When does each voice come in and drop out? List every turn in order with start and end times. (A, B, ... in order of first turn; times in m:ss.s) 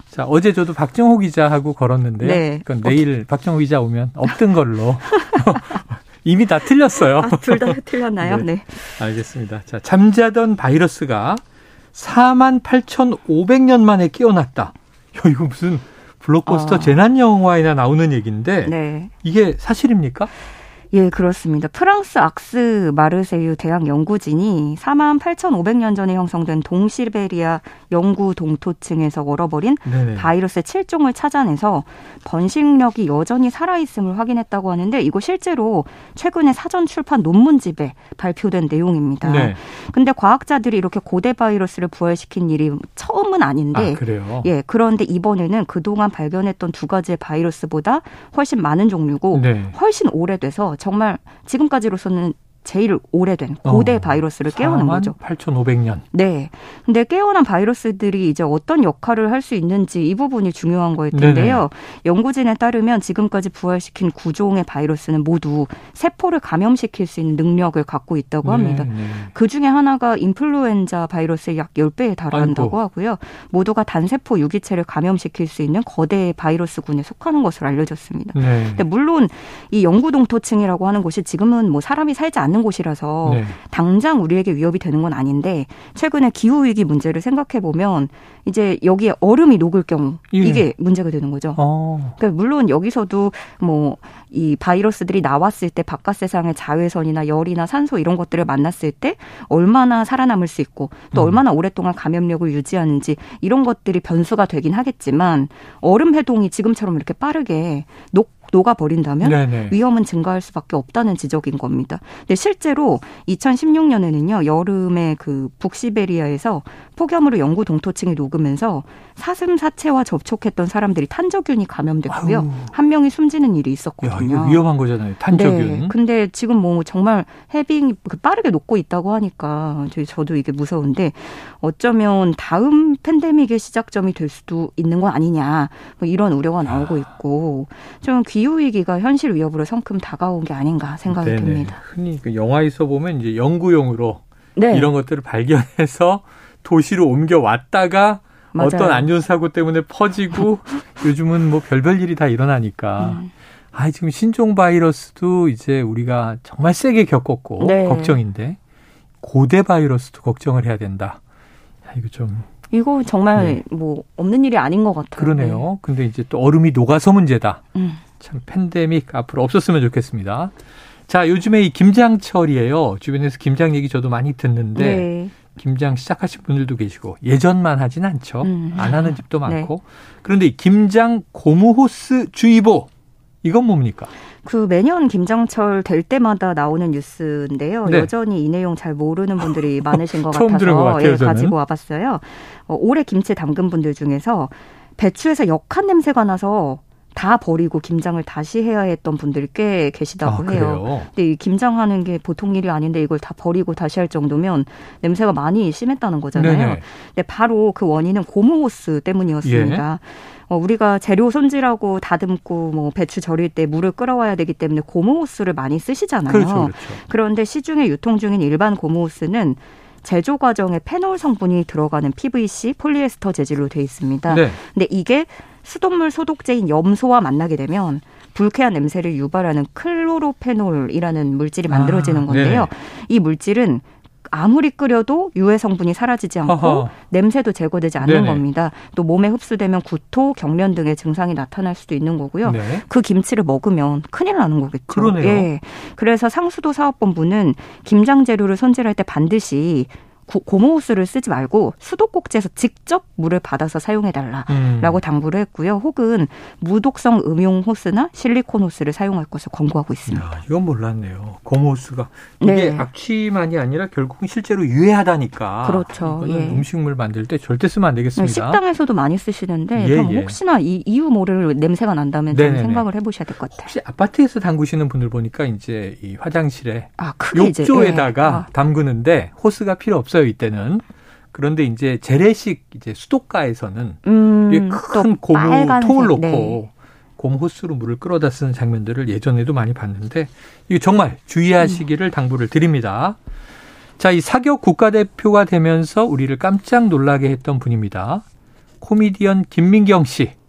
0:00.1-0:11.4 A
0:02.2-0:03.0 B
0:05.0-0:05.8 B
0:07.0-0:09.0 B
0:11.9-0:20.3 A
0:16.4-0:17.0 B
0:18.6-0:19.1 B
0:20.9-0:55.2 B
0:29.8-0:30.3 A
0:39.2-0:39.6 A
0:43.7-0:44.5 A
0:49.3-0:49.8 A
0:53.6-0:56.0 A
0:56.1-2:04.6 B
1:01.1-1:01.6 A
1:08.4-1:09.3 A
1:12.3-1:12.8 A
1:18.3-1:18.8 A
1:23.2-1:23.6 A
1:30.3-1:30.7 A
1:31.6-1:32.2 A
1:41.1-1:41.4 A
1:49.2-1:49.8 A
2:02.1-2:02.7 A
2:04.0-2:05.9 A
2:05.3-2:21.8 B
2:16.6-2:17.0 A
2:21.1-2:38.6 A
2:24.6-2:24.9 B
2:28.5-2:29.1 B
2:33.0-2:33.3 B
2:37.6-2:38.2 B
2:39.2-2:41.2 A
2:41.9-2:42.5 A
2:42.7-2:45.6 B
2:43.3-2:43.6 A
2:45.2-2:47.6 A
2:47.7-2:48.0 B
2:48.2-2:50.5 A
2:51.1-3:02.9 A
2:54.7-2:55.3 B
2:58.4-2:59.7 B
3:03.4-3:04.1 A
3:04.4-4:20.3 B
3:07.8-3:08.1 A
3:09.4-3:11.5 A
3:20.2-3:21.1 A
3:26.3-3:26.8 A
3:29.4-3:29.8 A
3:36.2-3:37.0 A
3:44.3-3:44.6 A
3:51.7-3:52.7 A
3:56.4-3:56.9 A
3:58.0-3:58.4 A
4:02.4-4:02.8 A
4:04.9-4:05.5 A
4:14.5-4:15.0 A
4:20.1-4:28.6 A
4:22.4-4:22.9 B
4:25.6-4:26.6 B
4:28.2-4:33.7 B
4:29.7-4:30.4 A
4:32.3-4:32.9 A
4:33.5-4:53.2 A
4:37.0-4:38.5 B
4:44.0-4:46.6 B
4:54.0-4:58.2 A
4:58.8-5:00.3 A